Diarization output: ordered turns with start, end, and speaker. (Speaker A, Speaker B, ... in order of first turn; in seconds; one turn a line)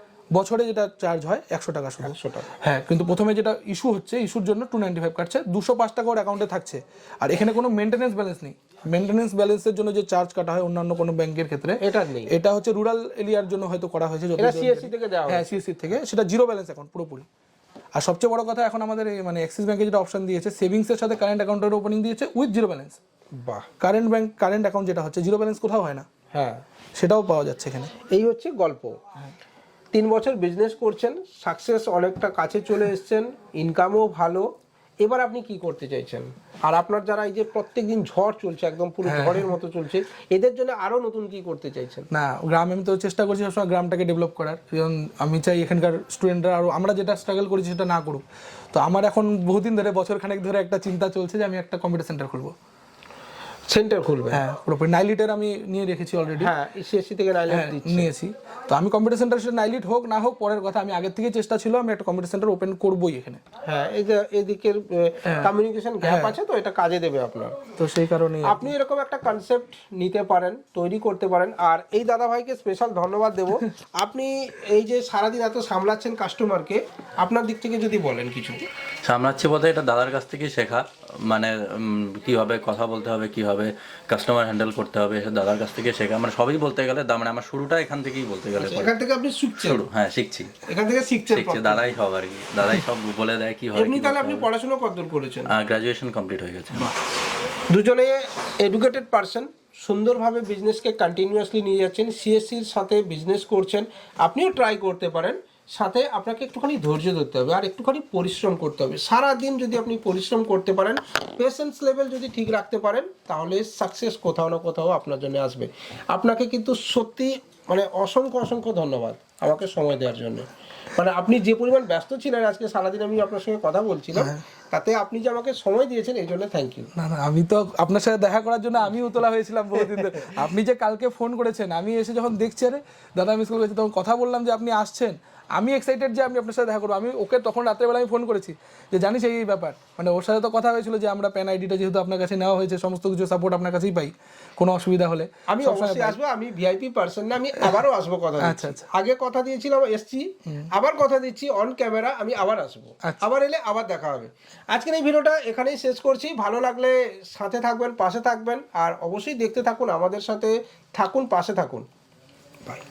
Speaker A: 0.3-17.2
Speaker B: 2.0-2.5
Speaker B: 11.8-12.3
Speaker B: 14.4-15.6
Speaker A: 17.9-23.0
Speaker B: 23.4-23.7
Speaker A: 23.8-26.1
Speaker B: 26.3-26.6
Speaker A: 26.9-27.9
Speaker B: 28.1-29.0
Speaker B: 29.9-34.5
Speaker B: 35.0-42.1
Speaker A: 39.0-39.5
Speaker A: 42.1-52.5
Speaker B: 53.7-54.4
Speaker A: 54.3-56.5
Speaker B: 56.4-58.1
Speaker A: 57.5-63.4
Speaker B: 63.6-67.6
Speaker A: 66.0-66.3
Speaker A: 67.8-68.7
Speaker B: 68.4-78.6
Speaker C: 79.0-88.9
Speaker B: 88.6-89.8
Speaker C: 89.5-90.6
Speaker B: 90.7-92.0
Speaker C: 91.3-94.5
Speaker B: 93.7-95.5
Speaker C: 95.5-96.9
Speaker B: 97.7-126.9
Speaker A: 124.2-124.4
Speaker A: 127.0-146.2
Speaker B: 145.5-161.8
Speaker A: 148.4-148.9